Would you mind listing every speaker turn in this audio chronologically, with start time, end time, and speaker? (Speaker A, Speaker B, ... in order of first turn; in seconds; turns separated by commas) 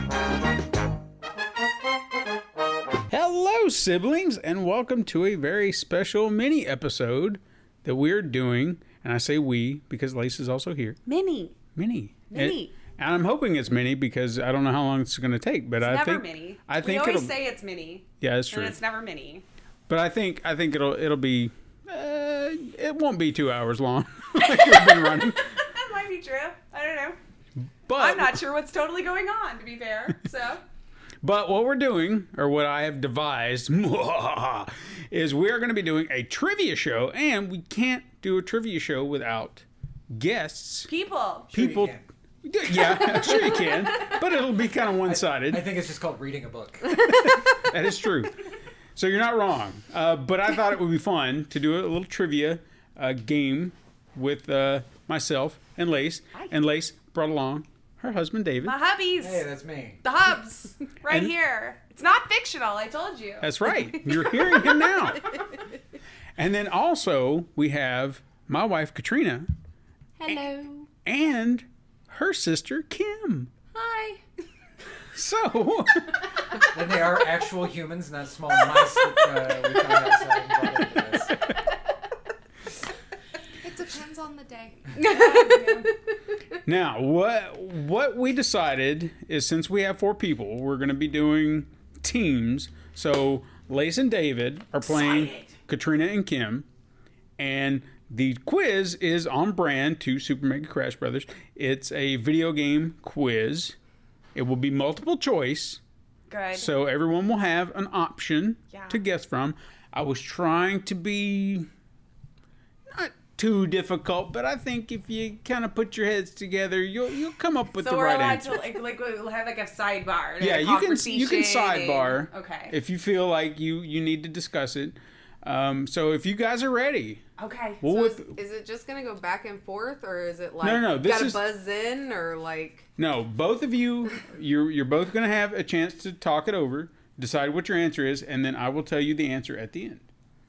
Speaker A: 3.1-11.0, Speaker B: 11.1-11.6, Speaker A: 11.8-17.4, Speaker B: 12.3-12.8, Speaker B: 15.8-19.4, Speaker A: 18.2-18.8, Speaker A: 19.9-25.4, Speaker B: 24.4-27.2, Speaker A: 27.9-28.4, Speaker B: 27.9-30.6, Speaker A: 31.2-40.9, Speaker B: 40.9-41.5, Speaker C: 41.5-42.0, Speaker A: 41.5-45.7, Speaker C: 45.0-47.2, Speaker A: 47.1-48.3, Speaker A: 48.9-58.7, Speaker B: 58.6-59.5, Speaker C: 59.2-60.0, Speaker B: 60.0-63.5, Speaker A: 63.4-65.4, Speaker A: 66.4-69.5, Speaker D: 70.2-70.9, Speaker A: 70.3-73.5, Speaker D: 73.7-74.2, Speaker A: 75.1-76.2, Speaker C: 76.7-81.3, Speaker D: 83.8-84.7, Speaker E: 84.9-85.8, Speaker B: 85.0-85.9, Speaker A: 86.7-96.7, Speaker B: 94.9-95.5, Speaker A: 97.4-103.8, Speaker A: 104.3-105.8, Speaker B: 106.3-106.7, Speaker A: 106.5-111.7, Speaker B: 108.7-109.0, Speaker A: 112.9-118.6, Speaker B: 117.7-122.8, Speaker A: 120.4-127.2, Speaker B: 127.4-127.8, Speaker A: 127.8-128.4, Speaker E: 127.8-132.9, Speaker A: 130.6-131.4, Speaker A: 133.0-140.0